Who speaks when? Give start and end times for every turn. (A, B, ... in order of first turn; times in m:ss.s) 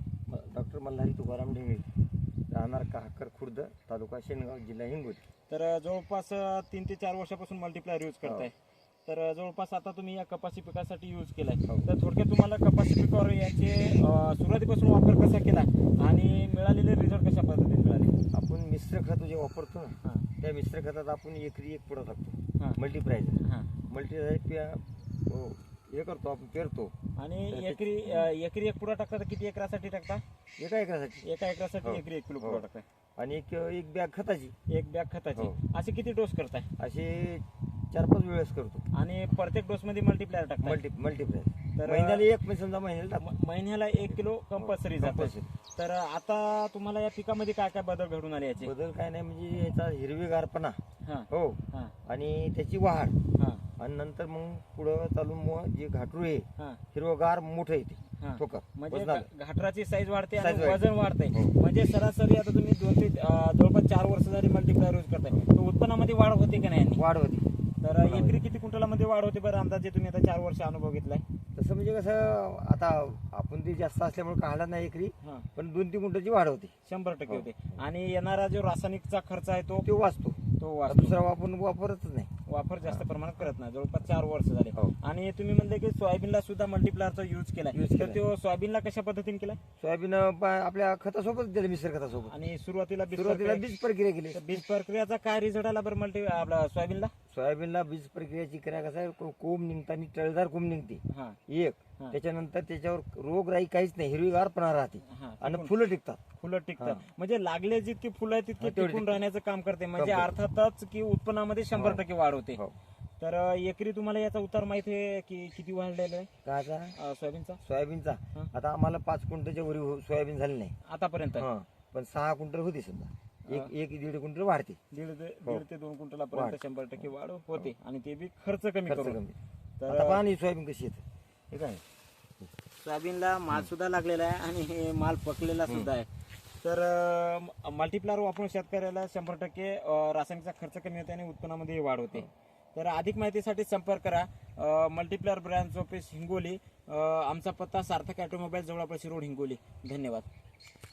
0:00.3-0:01.9 A
0:02.5-0:05.2 A
0:05.5-0:08.5 B
0:08.2-0:08.5 A
0:09.0-0:18.2 B
0:18.3-0:26.9 A
0:23.4-0:23.7 B
0:27.2-0:30.2 B
0:27.5-0:28.3 A
0:30.6-0:31.3 A
0:31.2-0:32.8 B
0:31.8-0:32.6 A
0:33.2-0:34.5 A
0:34.7-0:36.7 B
0:36.8-0:38.9 A
0:38.9-0:40.8 B
0:40.6-0:43.3 A
0:41.7-0:42.2 B
0:43.2-0:48.7 B
0:44.1-0:45.5 A
0:48.6-0:50.8 A
0:51.0-0:51.9 B
0:51.3-0:53.2 A
0:53.4-0:53.6 B
0:53.8-0:59.2 A
0:58.2-1:07.0 B
1:00.4-1:01.6 A
1:06.9-1:08.4 A
1:07.8-1:11.2 B
1:11.5-1:16.7 A
1:15.2-1:15.5 B
1:16.8-1:19.9 B
1:17.2-1:17.8 A
1:19.8-1:22.3 A
1:20.6-1:21.2 B
1:22.5-1:29.6 B
1:27.7-1:28.2 A
1:29.8-1:32.3 A
1:32.3-1:33.6 B
1:33.1-1:34.6 A
1:34.3-1:37.1 B
1:37.3-1:46.2 A
1:41.1-1:41.4 B
1:45.0-1:45.7 B
1:46.4-1:52.6 B
1:46.8-1:47.1 A
1:48.6-1:49.2 A
1:50.0-1:50.4 A
1:51.7-1:52.8 A
1:53.2-1:56.3 B
1:56.4-1:56.9 A
1:56.9-1:57.6 B
1:57.6-2:00.7 A
2:00.8-2:01.5 B
2:01.4-2:04.8 A
2:03.5-2:03.7 B
2:04.9-2:09.2 B
2:06.3-2:07.7 A
2:08.8-2:09.4 A
2:09.8-2:10.2 B
2:09.9-2:11.8 A
2:12.8-2:16.1 B
2:15.6-2:15.9 A
2:16.6-2:30.3 B